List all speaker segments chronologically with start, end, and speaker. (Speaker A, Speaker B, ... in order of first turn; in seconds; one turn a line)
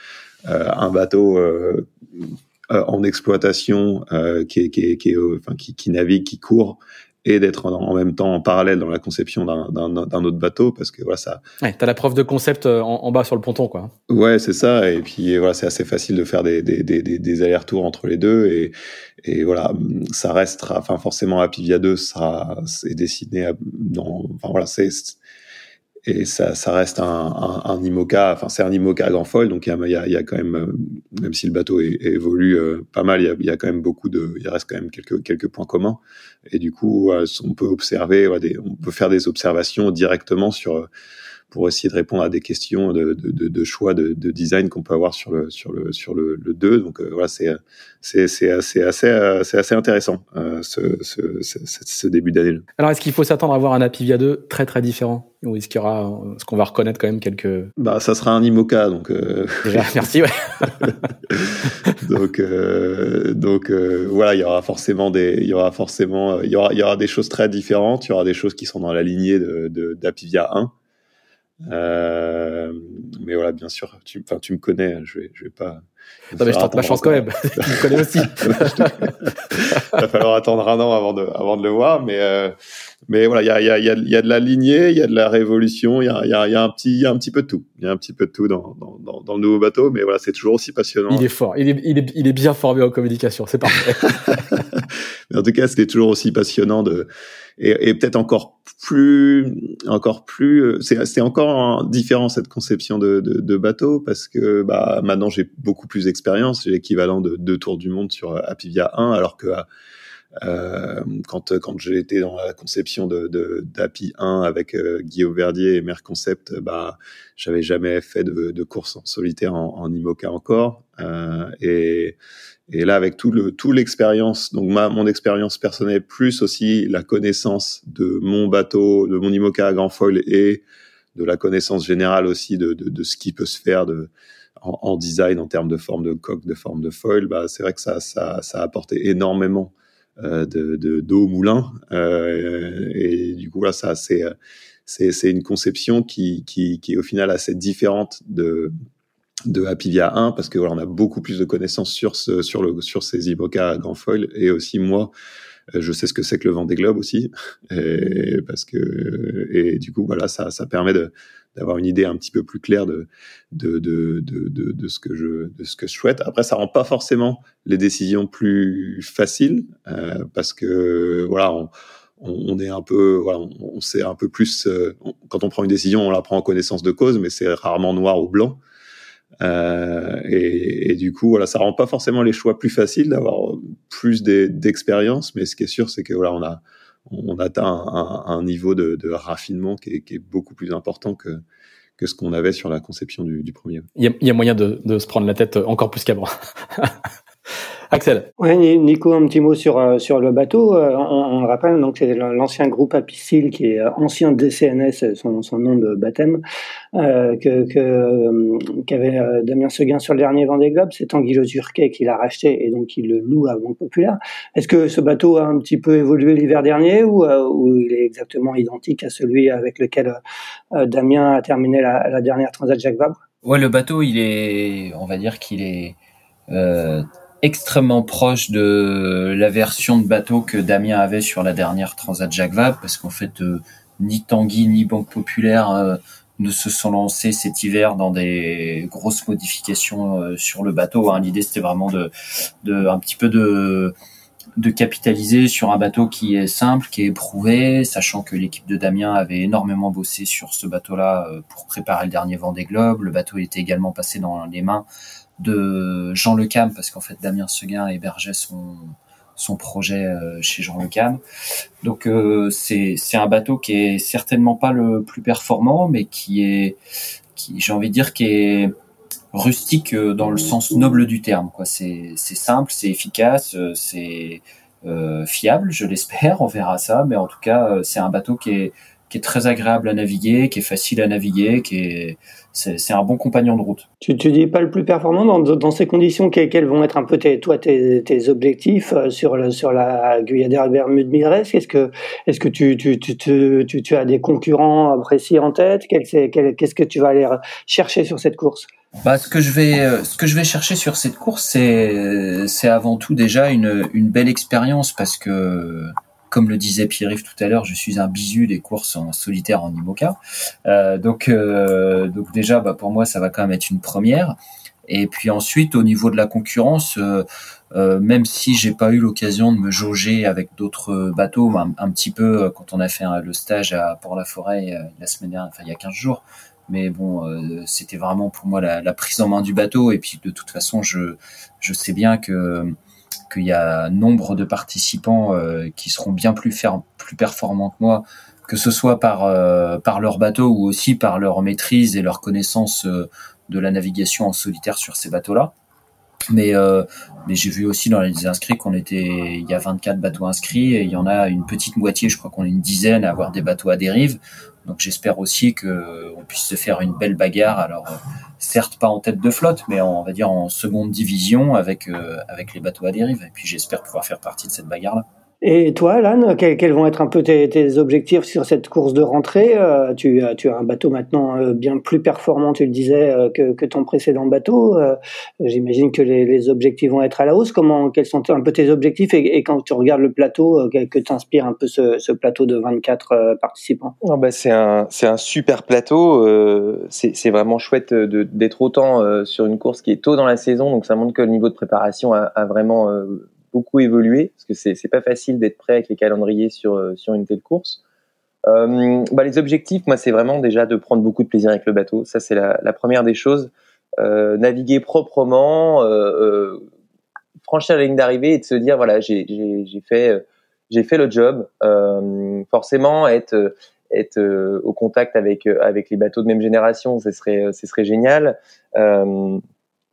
Speaker A: 0.5-11.4
Speaker B: 11.6-13.9
Speaker A: 14.1-25.2
Speaker A: 26.0-40.9
Speaker A: 41.5-52.6
Speaker B: 52.8-57.7
Speaker A: 57.8-60.0
Speaker B: 59.6-61.0
Speaker A: 60.8-70.7
Speaker A: 71.7-75.8
Speaker A: 76.3-82.5
Speaker B: 76.4-79.1
Speaker A: 83.1-91.2
Speaker B: 91.1-94.3
Speaker A: 94.3-94.6
Speaker A: 95.3-109.7
Speaker A: 110.4-122.2
Speaker A: 122.7-130.6
Speaker A: 131.1-144.3
Speaker A: 144.9-148.7
Speaker A: 149.4-155.1
Speaker A: 155.7-178.6
Speaker A: 179.4-191.4
Speaker A: 192.0-193.9
Speaker B: 194.0-196.9
Speaker B: 197.9-198.3
Speaker C: 198.4-206.4
Speaker C: 206.9-220.2
Speaker C: 220.7-223.2
Speaker D: 223.4-226.0
Speaker D: 226.5-242.1
Speaker D: 242.6-243.9
Speaker D: 244.6-254.9
Speaker D: 255.4-261.2
Speaker D: 261.8-266.8
Speaker D: 267.4-268.7
Speaker D: 269.3-283.9
Speaker C: 284.0-298.7
Speaker D: 299.0-314.4
Speaker D: 314.9-332.7
Speaker D: 333.3-345.5
Speaker D: 346.3-365.0
Speaker C: 365.4-383.9
Speaker E: 384.0-397.8
Speaker E: 398.5-406.6
Speaker E: 407.4-419.4